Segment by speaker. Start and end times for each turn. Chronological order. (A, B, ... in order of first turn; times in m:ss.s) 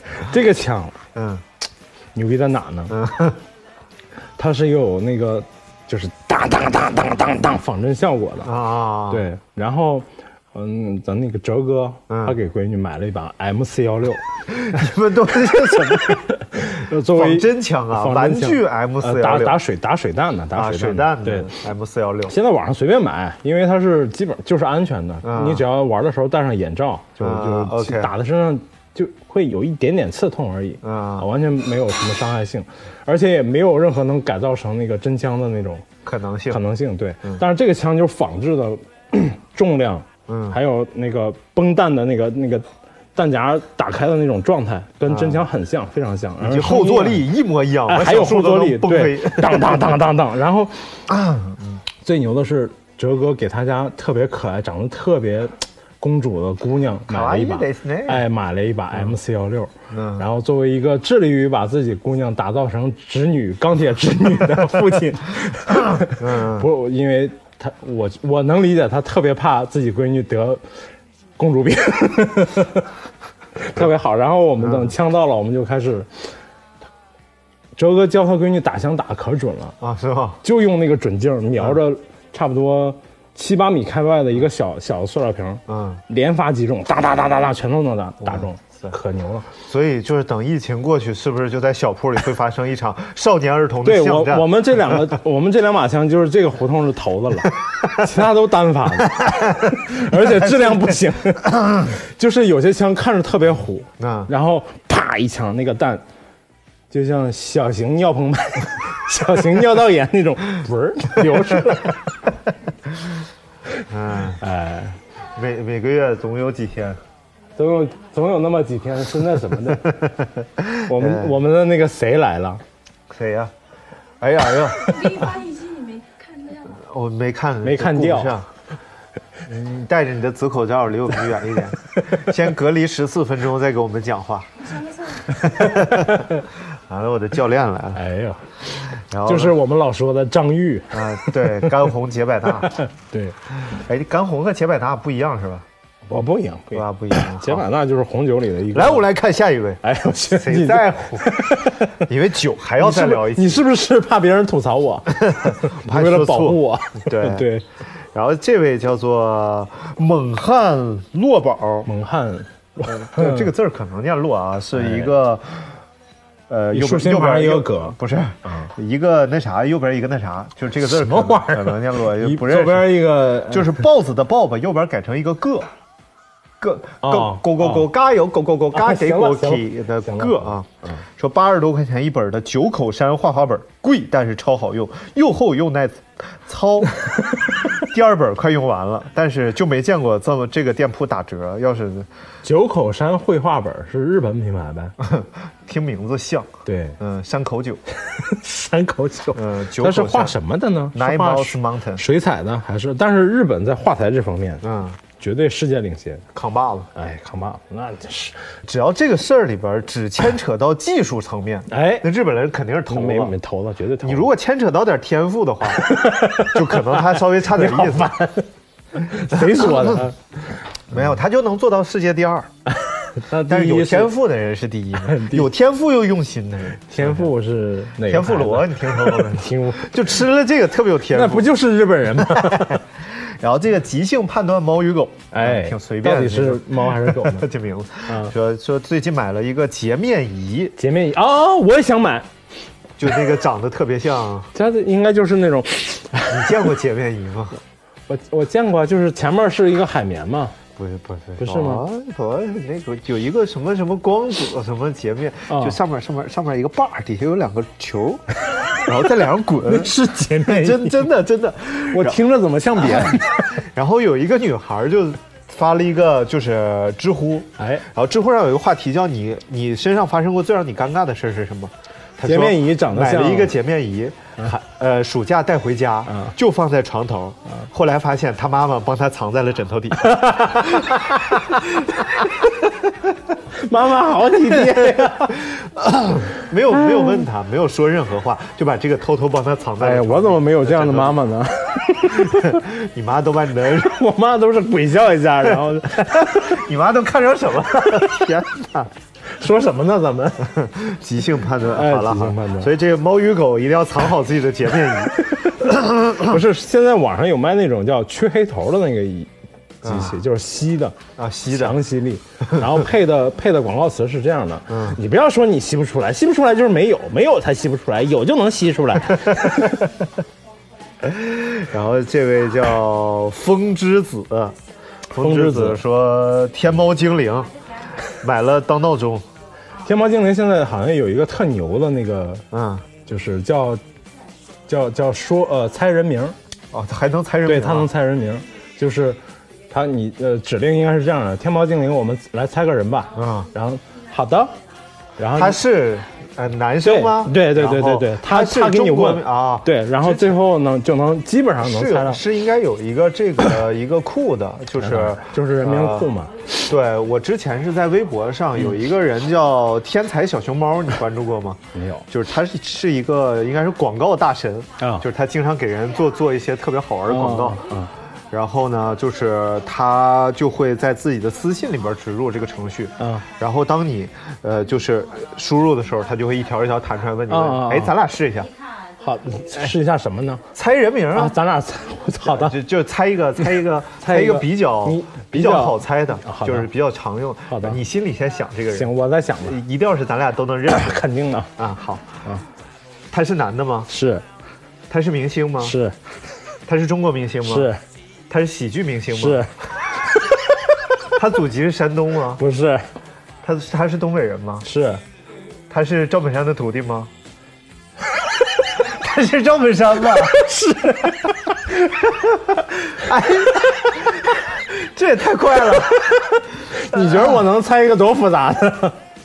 0:00.1-0:01.0 A
0:01.1-0:01.4 B
0:02.1-0:02.9 A
0:02.9-0:03.4 B
0:04.4-0:08.5 A
0:08.4-0:09.2 B
0:09.1-0:14.2 A
0:12.1-0:12.4 B
0:14.5-0:16.3 B
0:15.5-0:21.5 A
0:17.0-0:19.6 B
0:20.5-0:22.3 B
0:22.3-0:35.9 A
0:25.2-0:25.6 B
0:27.2-0:28.1 B
0:30.8-0:31.3 B
0:36.0-0:36.6 B
0:36.5-0:47.3 A
0:40.3-0:40.6 B
0:45.1-0:45.4 B
0:46.4-0:49.9 B
0:47.9-0:51.0 A
0:51.1-0:51.8 B
0:52.0-1:10.6 A
0:57.1-0:58.2 B
0:59.9-1:00.2 B
1:05.8-1:06.7 B
1:11.4-1:12.9 A
1:13.6-1:16.3 A
1:14.6-1:14.9 B
1:17.8-1:19.8 A
1:19.8-1:20.4 B
1:20.4-1:29.5 A
1:25.7-1:26.0 B
1:28.2-1:29.0 B
1:29.6-1:34.9 B
1:33.8-1:46.0 A
1:39.2-1:41.9 B
1:44.0-1:44.3 B
1:46.9-1:52.1 A
1:53.9-1:54.4 B
1:54.4-1:55.0 A
1:55.3-1:57.0 B
1:57.6-2:00.1 A
2:00.4-2:01.4 B
2:00.8-2:02.6 A
2:03.1-2:03.5 B
2:04.2-2:05.4 B
2:04.7-2:06.8 C
2:06.8-2:08.5 B
2:07.6-2:08.4 A
2:09.4-2:14.7 B
2:14.6-2:15.4 C
2:15.3-2:18.0 B
2:15.9-2:16.3 A
2:17.9-2:18.6 A
2:18.9-2:19.6 B
2:19.2-2:21.7 A
2:20.9-2:22.8 B
2:22.7-2:23.4 A
2:23.6-2:25.6 B
2:26.0-2:29.1 A
2:26.7-2:27.6 B
2:28.7-2:33.6 B
2:29.8-2:32.0 A
2:32.8-2:37.6 A
2:35.1-2:37.5 B
2:38.0-2:41.9 B
2:41.8-2:43.5 A
2:42.8-2:45.7 B
2:44.7-2:45.1 A
2:46.5-2:55.7 B
2:46.7-2:48.7 A
2:50.8-2:53.8 A
2:56.6-3:07.0 B
2:57.0-2:57.9 A
2:58.7-3:01.0 A
3:07.6-3:12.1 B
3:12.4-3:15.0 A
3:15.0-3:17.8 B
3:16.6-3:17.0 A
3:18.0-3:26.3 A
3:19.3-3:20.4 B
3:20.9-3:22.0 B
3:24.6-3:25.0 B
3:26.3-3:26.9 B
3:26.9-3:28.5 A
3:28.6-3:33.3 B
3:31.7-3:32.1 A
3:32.9-3:34.3 A
3:34.0-3:38.1 B
3:35.8-3:40.2 A
3:39.3-3:40.1 B
3:40.9-3:42.5 B
3:42.7-3:44.2 A
3:43.4-3:47.3 B
3:45.0-3:45.5 A
3:46.9-3:50.0 A
3:48.0-3:51.5 B
3:51.1-3:52.8 A
3:52.2-4:00.8 B
3:55.3-3:57.5 A
3:58.1-3:58.3 A
4:00.8-4:02.3 A
4:03.0-4:04.5 B
4:04.5-4:06.6 A
4:06.3-4:07.6 B
4:08.1-4:10.6 A
4:10.8-4:22.2 B
4:11.4-4:11.8 A
4:15.5-4:15.8 A
4:19.6-4:21.1 A
4:21.9-4:23.5 A
4:22.8-4:42.5 B
4:27.6-4:27.8 A
4:32.2-4:33.6 A
4:40.0-4:42.2 A
4:43.5-4:45.5 A
4:44.8-4:51.2 B
4:46.7-4:47.3 A
4:49.8-4:52.6 A
4:52.1-4:53.9 B
4:53.7-4:56.6 A
4:55.9-4:58.9 B
4:59.3-5:00.5 A
5:00.4-5:06.3 B
5:01.6-5:02.7 A
5:05.6-5:09.3 A
5:09.8-5:10.2 B
5:09.8-5:19.9 A
5:11.2-5:11.8 B
5:14.7-5:15.0 B
5:21.0-5:24.6 B
5:25.1-5:27.5 B
5:25.2-5:25.8 A
5:28.0-5:29.2 B
5:29.8-5:32.4 A
5:32.5-5:32.8 B
5:33.0-5:33.8 A
5:34.7-5:36.4 A
5:36.7-5:37.9 B
5:37.4-5:44.6 A
5:43.1-5:43.5 B
5:45.2-5:45.6 A
5:45.3-5:50.4 B
5:46.8-5:52.2 A
5:51.6-6:07.6 B
5:54.8-5:56.5 A
6:01.7-6:02.0 A
6:04.8-6:05.1 A
6:07.1-6:07.9 A
6:08.3-6:18.5 B
6:13.0-6:13.2 A
6:17.3-6:17.9 A
6:19.0-6:20.5 A
6:20.5-6:21.4 B
6:21.1-6:22.6 A
6:22.3-6:28.9 B
6:24.0-6:26.7 A
6:27.5-6:27.8 A
6:28.7-6:29.6 A
6:29.4-6:32.2 B
6:30.7-6:31.5 A
6:33.1-6:33.9 B
6:33.9-6:34.2 A
6:34.9-6:35.8 B
6:35.6-6:36.0 A
6:36.7-6:37.7 B
6:37.4-6:37.8 A
6:38.3-6:39.5 B
6:39.1-6:40.7 A
6:41.1-6:42.4 B
6:42.4-6:42.8 A
6:43.4-6:44.7 B
6:44.6-6:45.0 A
6:45.7-6:47.1 B
6:48.7-6:50.4 B
6:50.1-6:51.7 A
6:52.0-6:57.4 B
6:56.6-6:59.0 A